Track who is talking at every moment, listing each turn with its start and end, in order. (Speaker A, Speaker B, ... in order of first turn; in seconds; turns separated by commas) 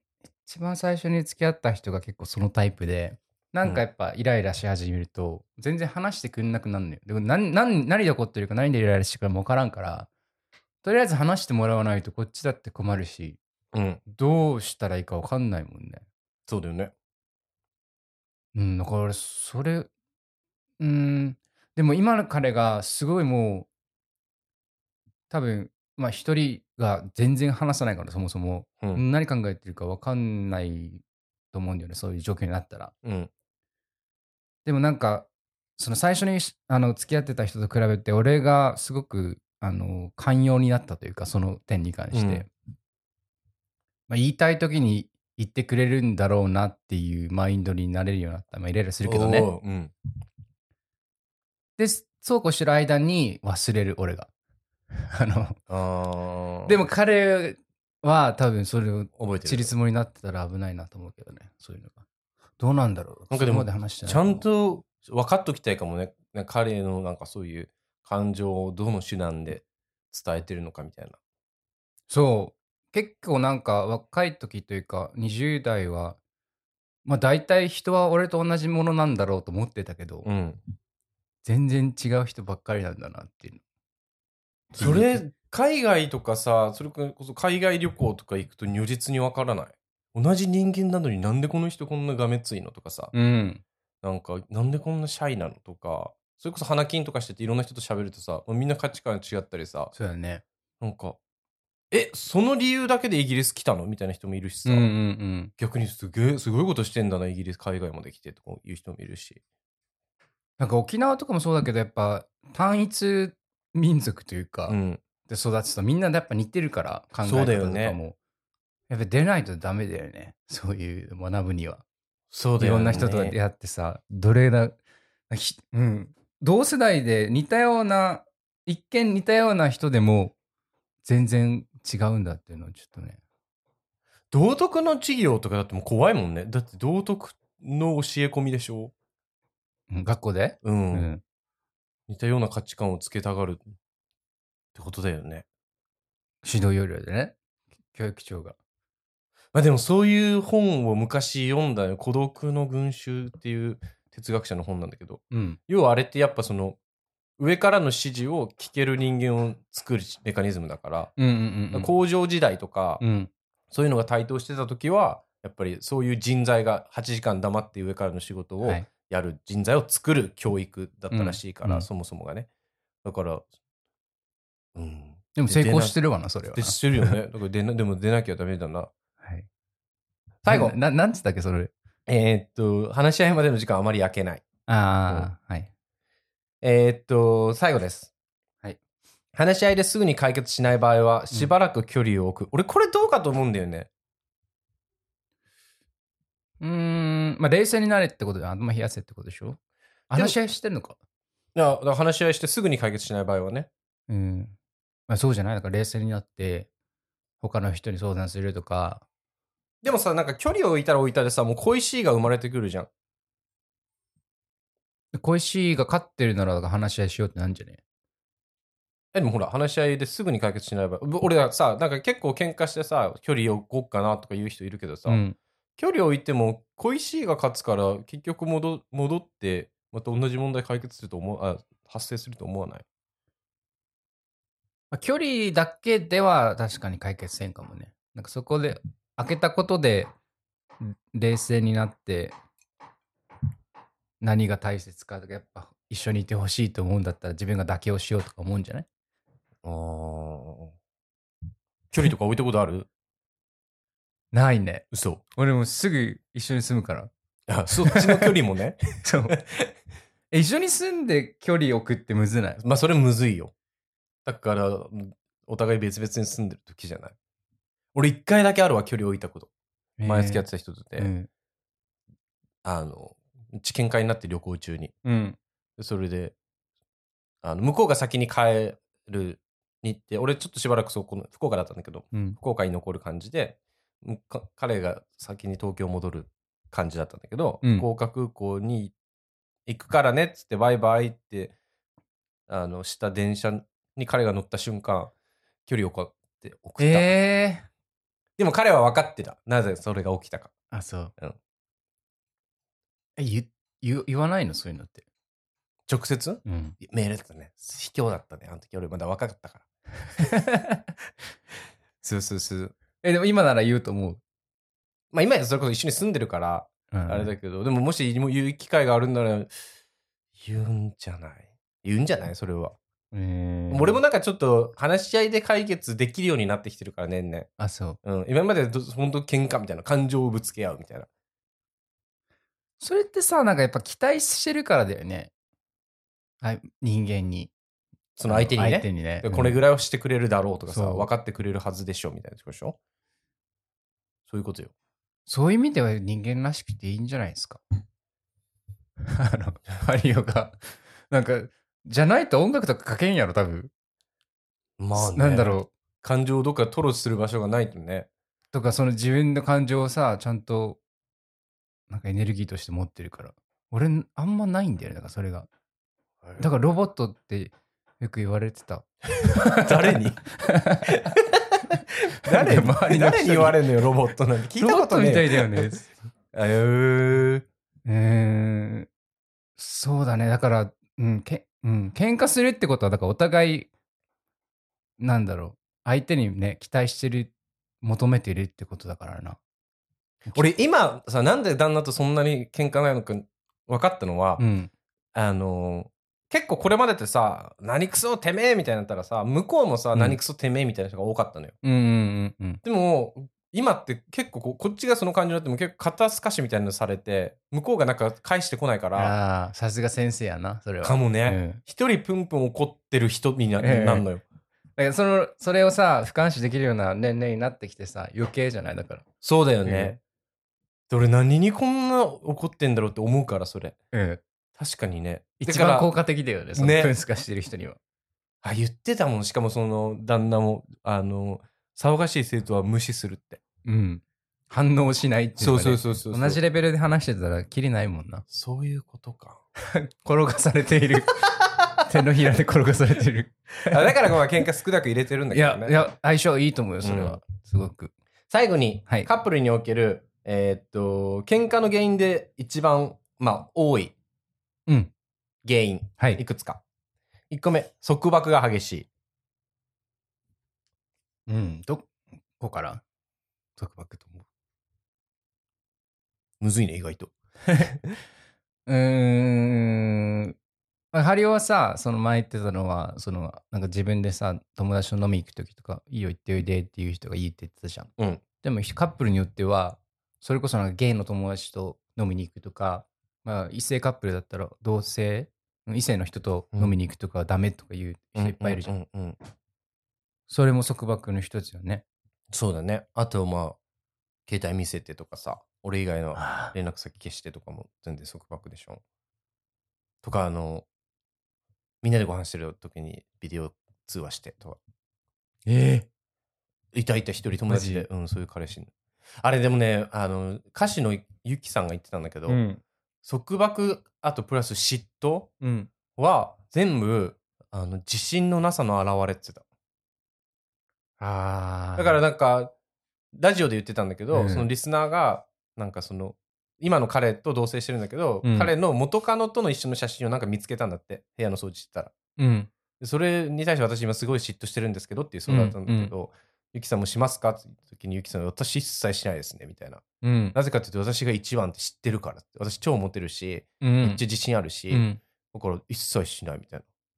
Speaker A: 0.4-10.1, Speaker A: 10.8-13.4, Speaker B: 13.7-14.0, Speaker A: 14.1-16.0, Speaker B: 16.5-16.9, Speaker A: 18.5-19.9, Speaker A: 20.8-23.7, Speaker A: 25.3-32.9, Speaker B: 33.0-33.3, Speaker A: 34.6-42.5, Speaker B: 42.1-42.5, Speaker A: 44.1-49.5, Speaker B: 49.0-49.9, Speaker A: 51.8-54.3, Speaker A: 55.1-55.6, Speaker B: 55.7-56.8, Speaker A: 56.6-62.0, Speaker B: 59.2-59.7, Speaker A: 62.6-64.4, Speaker B: 63.3-71.2, Speaker A: 72.1-76.2, Speaker A: 77.0-80.3, Speaker B: 80.2-80.6, Speaker A: 81.4-83.6, Speaker A: 84.7-85.2, Speaker B: 84.8-93.1, Speaker A: 93.1-93.6, Speaker B: 94.0-99.9, Speaker A: 99.9-100.4, Speaker B: 100.8-101.2, Speaker B: 101.9-104.9, Speaker A: 104.7-105.5, Speaker B: 105.6-109.4, Speaker A: 110.6-114.8, Speaker B: 114.7-115.0, Speaker A: 115.3-118.2, Speaker B: 117.2-118.0, Speaker A: 118.9-121.8, Speaker B: 122.3-123.3, Speaker A: 122.6-124.8, Speaker A: 125.3-130.3, Speaker A: 131.0-133.2, Speaker B: 134.3-138.9, Speaker A: 139.9-141.2, Speaker B: 140.6-141.1, Speaker B: 142.1-143.6, Speaker B: 144.7-145.4, Speaker A: 146.4-147.3, Speaker A: 147.9-148.6, Speaker B: 149.5-156.8, Speaker A: 155.3-155.6, Speaker B: 157.4-161.1, Speaker A: 161.2-161.9, Speaker B: 161.7-163.0, Speaker A: 163.0-163.3, Speaker B: 163.7-172.5, Speaker A: 171.1-171.9, Speaker B: 173.0-173.4, Speaker B: 174.7-176.0, Speaker A: 175.3-177.1, Speaker B: 176.5-178.9, Speaker A: 179.2-179.5, Speaker B: 180.4-180.8, Speaker A: 180.5-181.7, Speaker B: 182.1-184.4, Speaker A: 184.7-185.7, Speaker B: 186.6-188.1, Speaker B: 189.3-193.9, Speaker A: 196.6-199.6, Speaker A: 200.1-200.9, Speaker B: 201.5-203.7, Speaker A: 204.1-204.5, Speaker A: 205.1-206.7, Speaker A: 207.4-209.0, Speaker B: 209.8-212.9, Speaker A: 215.1-217.8, Speaker B: 219.1-225.2, Speaker A: 225.1-225.3, Speaker B: 225.8-232.8, Speaker A: 234.9-240.1, Speaker A: 240.8-242.3, Speaker A: 244.2-248.8, Speaker B: 249.6-250.7, Speaker B: 251.9-252.9, Speaker A: 254.3-257.1, Speaker B: 254.9-255.2, Speaker B: 257.5-258.8, Speaker A: 257.8-258.3, Speaker A: 259.0-259.4, Speaker B: 259.3-259.7, Speaker A: 260.3-262.6, Speaker B: 262.6-263.5, Speaker B: 264.2-267.1, Speaker B: 267.9-269.5, Speaker A: 270.0-270.4, Speaker B: 270.0-271.1, Speaker A: 271.0-271.3, Speaker B: 272.6-274.9, Speaker A: 275.0-275.4, Speaker B: 275.8-276.3, Speaker B: 277.4-288.9, Speaker A: 282.1-282.4, Speaker B: 289.6-291.5, Speaker B: 292.5-295.1, Speaker B: 295.7-297.1, Speaker A: 296.8-297.6, Speaker B: 298.4-300.5, Speaker A: 300.7-301.1, Speaker A: 303.2-305.0, Speaker B: 305.9-309.6, Speaker A: 306.4-306.8, Speaker A: 310.2-310.8, Speaker B: 312.0-312.7, Speaker A: 313.0-314.2, Speaker B: 315.1-319.5, Speaker A: 316.9-317.3, Speaker B: 320.4-322.8, Speaker A: 323.1-324.0, Speaker B: 323.7-327.5, Speaker A: 327.6-328.0, Speaker B: 328.0-331.1, Speaker A: 332.8-335.3, Speaker A: 336.4-337.5, Speaker B: 338.2-342.8, Speaker A: 338.2-339.6, Speaker A: 340.7-341.1, Speaker B: 344.3-344.7, Speaker A: 345.3-347.6, Speaker A: 349.1-350.6, Speaker A: 351.1-353.7, Speaker B: 354.8-358.1, Speaker A: 354.9-355.7, Speaker A: 358.5-360.8, Speaker A: 361.9-365.5, Speaker A: 366.4-371.1, Speaker B: 369.4-370.2, Speaker B: 370.9-377.4, Speaker A: 372.2-373.6, Speaker A: 374.6-375.8, Speaker A: 377.9-378.9, Speaker A: 379.6-383.7, Speaker A: 385.0-387.3, Speaker A: 387.8-389.4, Speaker B: 390.3-394.4, Speaker A: 394.4-394.7, Speaker B: 395.1-401.5, Speaker A: 401.6-402.6, Speaker B: 402.6-409.1, Speaker A: 408.9-411.6, Speaker B: 410.8-414.2, Speaker A: 413.6-414.1, Speaker A: 414.8-419.1, Speaker B: 419.2-420.0, Speaker A: 419.6-419.9, Speaker B: 420.9-423.8, Speaker A: 423.9-424.2, Speaker B: 424.6-425.9, Speaker A: 425.4-427.8, Speaker B: 426.6-426.9, Speaker B: 428.4-433.4, Speaker A: 433.6-438.2, Speaker B: 435.4-436.4, Speaker B: 438.3-439.4, Speaker A: 439.7-441.3, Speaker A: 441.8-443.9, Speaker B: 443.7-445.8, Speaker A: 445.3-447.9, Speaker B: 446.8-447.2, Speaker B: 448.3-453.9, Speaker B: 455.4-456.6, Speaker B: 457.3-458.9, Speaker A: 461.3-462.8, Speaker A: 463.6-464.2, Speaker B: 466.4-467.9, Speaker A: 468.7-470.3, Speaker A: 470.9-477.9, Speaker A: 478.4-488.7, Speaker B: 488.2-489.2, Speaker A: 490.3-491.8, Speaker B: 492.3-493.6, Speaker B: 494.3-498.8, Speaker A: 496.2-496.5, Speaker B: 500.0-500.6, Speaker B: 501.8-504.6, Speaker A: 505.4-505.9, Speaker B: 506.7-512.4, Speaker A: 507.5-507.9, Speaker A: 512.3-512.6, Speaker B: 513.0-515.3, Speaker A: 515.4-515.7, Speaker B: 515.9-519.4, Speaker A: 521.0-522.0, Speaker B: 521.8-522.5, Speaker B: 523.1-531.9, Speaker A: 524.1-524.5, Speaker A: 528.2-528.5, Speaker A: 532.2-532.5, Speaker B: 532.8-546.6, Speaker A: 535.3-535.9, Speaker A: 540.0-540.3, Speaker A: 543.6-544.0, Speaker A: 544.7-545.0